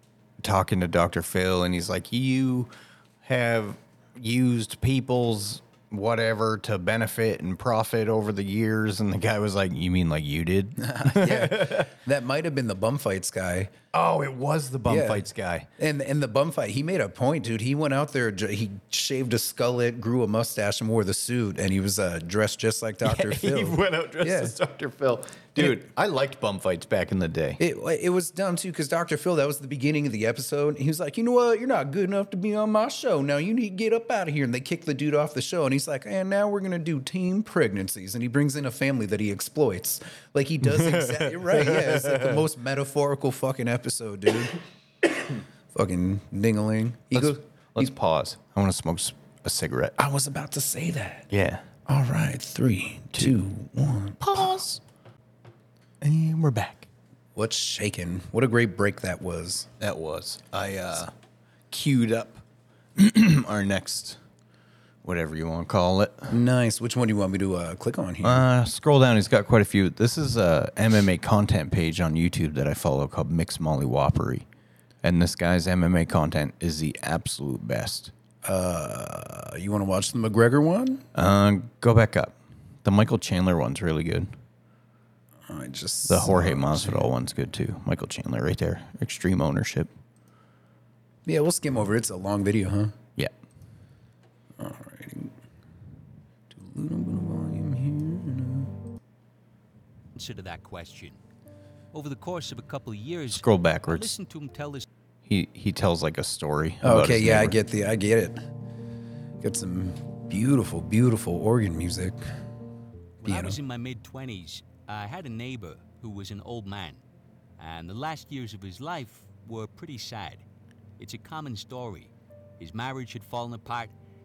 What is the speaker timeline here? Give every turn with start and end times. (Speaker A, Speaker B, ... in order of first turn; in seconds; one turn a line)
Speaker A: 0.4-2.7
Speaker A: 3.2-11.9
Speaker B: 10.8-13.7
Speaker A: 13.9-15.7
Speaker B: 14.8-15.3
Speaker B: 15.8-24.6
Speaker A: 23.0-27.6
Speaker B: 27.6-44.5
Speaker A: 40.6-42.4
Speaker B: 45.7-47.9
Speaker A: 47.1-50.0
Speaker B: 50.0-51.3
Speaker A: 51.3-51.6
Speaker B: 51.9-54.6
Speaker A: 54.2-54.8
Speaker A: 56.0-56.9
Speaker B: 57.4-59.7
Speaker A: 59.8-61.1
Speaker A: 61.7-62.4
Speaker A: 63.0-64.2
Speaker A: 65.0-66.3
Speaker B: 66.3-68.5
Speaker A: 68.2-74.5
Speaker A: 75.0-78.1
Speaker B: 78.4-81.0
Speaker A: 81.2-84.3
Speaker B: 85.5-87.1
Speaker A: 86.1-89.9
Speaker B: 91.3-92.9
Speaker B: 94.6-95.3
Speaker B: 96.5-98.7
Speaker C: 100.2-101.2
Speaker C: 101.9-104.9
Speaker A: 103.3-104.1
Speaker A: 105.3-107.6
Speaker B: 106.8-108.4
Speaker B: 109.4-112.2
Speaker C: 113.2-117.0
Speaker B: 113.2-113.6
Speaker C: 117.6-120.4
Speaker C: 121.0-123.9